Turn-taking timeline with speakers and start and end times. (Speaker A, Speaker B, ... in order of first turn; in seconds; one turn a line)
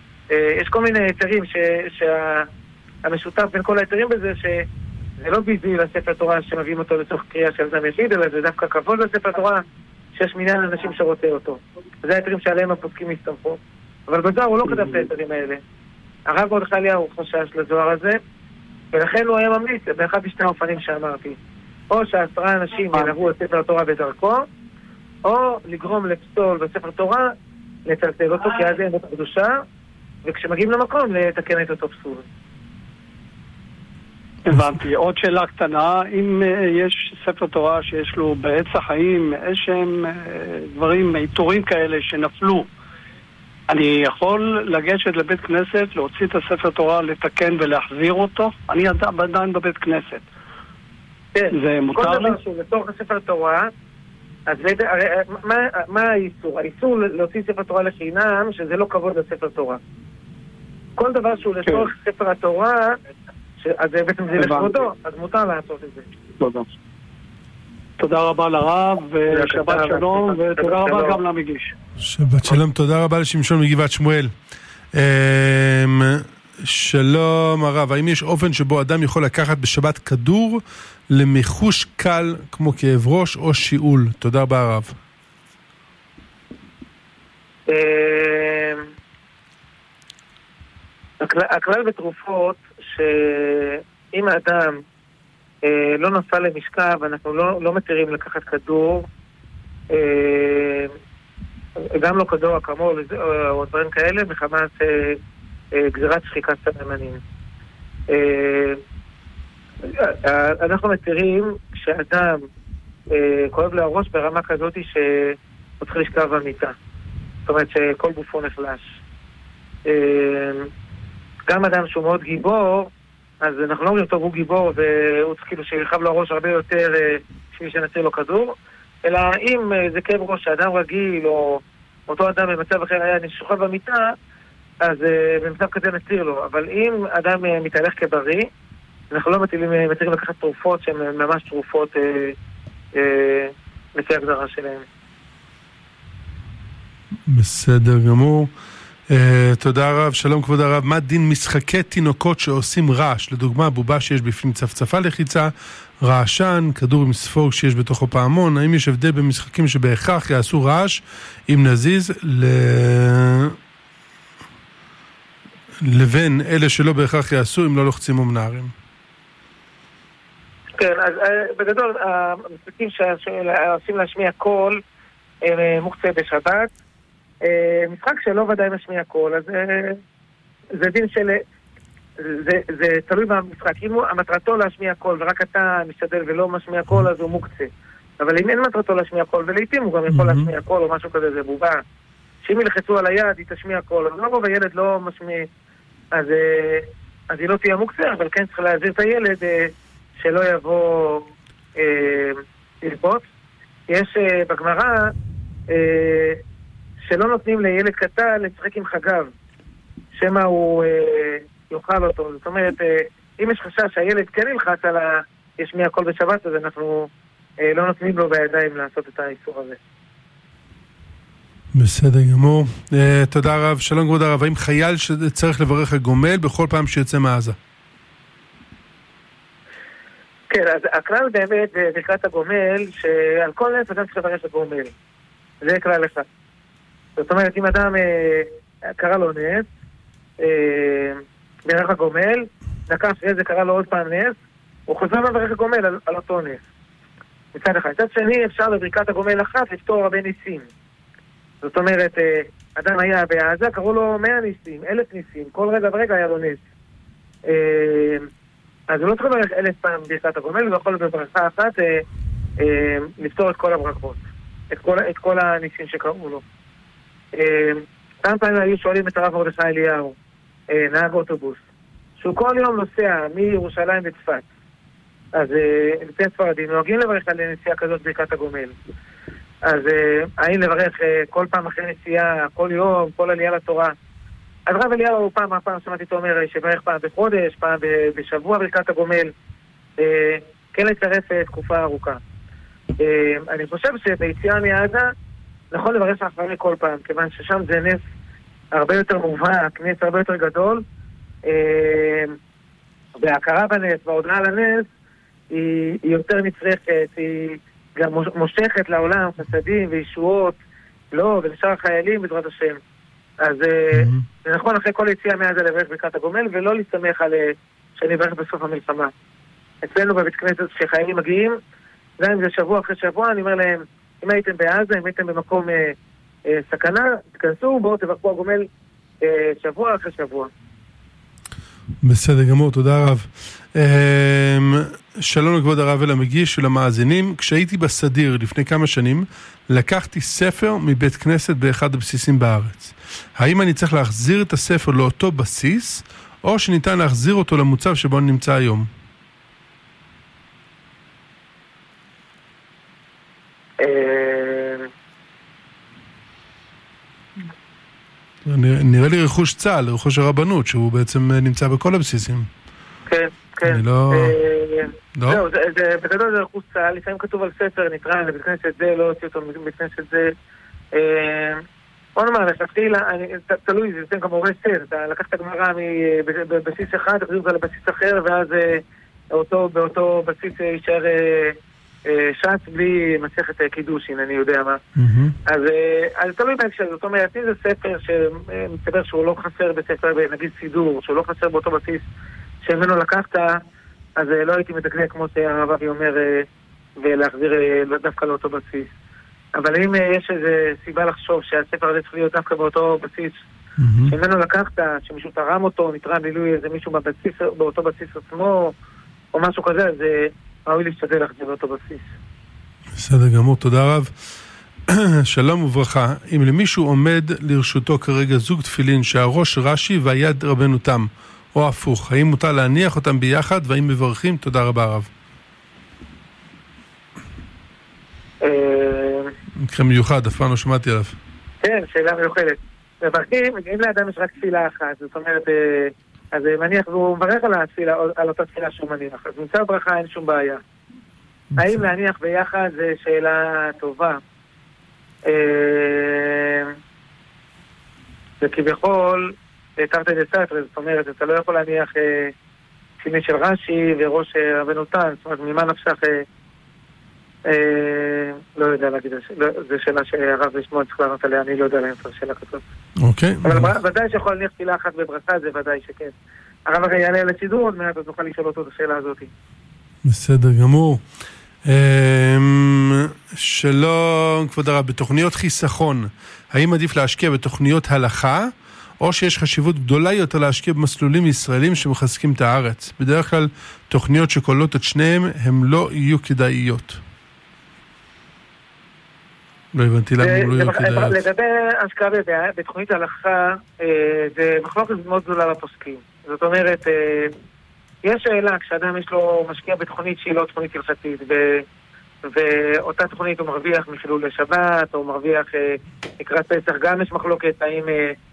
Speaker A: 0.3-2.5
Speaker A: 3.0-4.7
Speaker A: 5.2-9.6
Speaker A: 10.1-15.6
Speaker B: 14.7-15.0
Speaker A: 16.3-18.2
Speaker A: 18.9-21.4
Speaker A: 21.9-24.4
Speaker A: 25.2-27.3
Speaker A: 27.9-29.5
Speaker A: 30.2-32.2
Speaker B: 34.5-42.7
Speaker B: 43.7-50.2
Speaker A: 51.3-53.7
Speaker B: 51.5-52.4
Speaker A: 54.5-59.8
Speaker A: 61.0-63.0
Speaker B: 61.6-61.9
Speaker A: 63.6-66.0
Speaker B: 64.3-64.7
Speaker B: 66.4-66.7
Speaker B: 68.0-71.7
Speaker A: 69.3-71.2
Speaker C: 72.0-74.3
Speaker C: 74.9-85.0
Speaker A: 87.7-88.8
Speaker A: 91.2-94.8
Speaker A: 95.6-99.1
Speaker A: 99.9-100.9
Speaker A: 101.9-105.2
Speaker A: 105.7-107.2
Speaker A: 108.1-108.8
Speaker A: 109.8-112.4
Speaker A: 113.1-116.7
Speaker A: 117.5-119.0
Speaker A: 119.8-120.7
Speaker A: 121.5-122.9
Speaker A: 123.4-128.5
Speaker A: 129.0-134.1
Speaker A: 134.8-138.5
Speaker A: 139.1-142.3
Speaker A: 142.9-144.8
Speaker C: 147.3-148.5
Speaker C: 149.1-163.6
Speaker C: 165.8-168.7
Speaker A: 170.8-174.8
Speaker A: 175.4-176.7
Speaker A: 177.4-180.0
Speaker A: 180.7-181.4
Speaker A: 182.2-191.8
Speaker C: 190.1-190.5
Speaker A: 192.4-195.5
Speaker A: 196.1-203.2
Speaker A: 203.9-205.1
Speaker A: 205.7-206.4
Speaker A: 207.0-209.3
Speaker A: 210.1-219.8
Speaker C: 221.7-227.6
Speaker A: 230.5-234.9
Speaker A: 235.6-236.2
Speaker A: 237.2-239.7
Speaker A: 240.4-244.3
Speaker A: 244.9-246.6
Speaker A: 247.5-250.7
Speaker A: 251.6-256.6
Speaker A: 257.4-258.3
Speaker A: 258.9-262.0
Speaker A: 262.6-266.4
Speaker A: 267.3-270.1
Speaker A: 270.7-271.6
Speaker A: 272.2-274.4
Speaker A: 275.3-278.7
Speaker A: 279.6-283.9
Speaker A: 284.7-289.3
Speaker A: 290.0-292.2
Speaker A: 293.0-295.1
Speaker A: 295.7-298.0
Speaker A: 298.7-300.8
Speaker A: 301.4-302.3
Speaker A: 303.2-304.9
Speaker A: 305.5-310.6
Speaker A: 311.1-312.8
Speaker A: 313.4-319.1
Speaker C: 313.9-314.2
Speaker A: 319.8-321.6
Speaker A: 322.2-325.9
Speaker A: 326.5-328.7
Speaker A: 329.2-330.5
Speaker C: 332.0-348.9
Speaker A: 353.8-354.9
Speaker C: 358.4-362.5
Speaker A: 363.1-370.3
Speaker C: 363.6-364.4
Speaker C: 365.1-365.4
Speaker A: 370.9-371.6
Speaker A: 372.1-384.8
Speaker C: 385.0-385.4
Speaker A: 385.4-392.0
Speaker A: 392.6-393.6
Speaker A: 394.2-398.9
Speaker A: 399.5-403.4
Speaker C: 403.8-404.1
Speaker A: 404.1-408.7
Speaker A: 409.3-412.1
Speaker C: 412.9-414.1
Speaker C: 414.9-425.1
Speaker A: 428.4-429.3
Speaker C: 429.6-431.1
Speaker A: 431.6-440.6
Speaker C: 441.5-441.8
Speaker A: 441.6-444.2
Speaker A: 445.2-446.7
Speaker A: 448.4-452.3
Speaker A: 453.0-456.2
Speaker A: 457.4-462.6
Speaker C: 463.0-463.7
Speaker A: 463.4-466.1
Speaker A: 466.7-469.3
Speaker C: 470.0-471.0
Speaker C: 471.6-487.0
Speaker C: 489.7-491.2
Speaker A: 490.2-497.3
Speaker A: 498.0-501.6
Speaker A: 502.2-508.1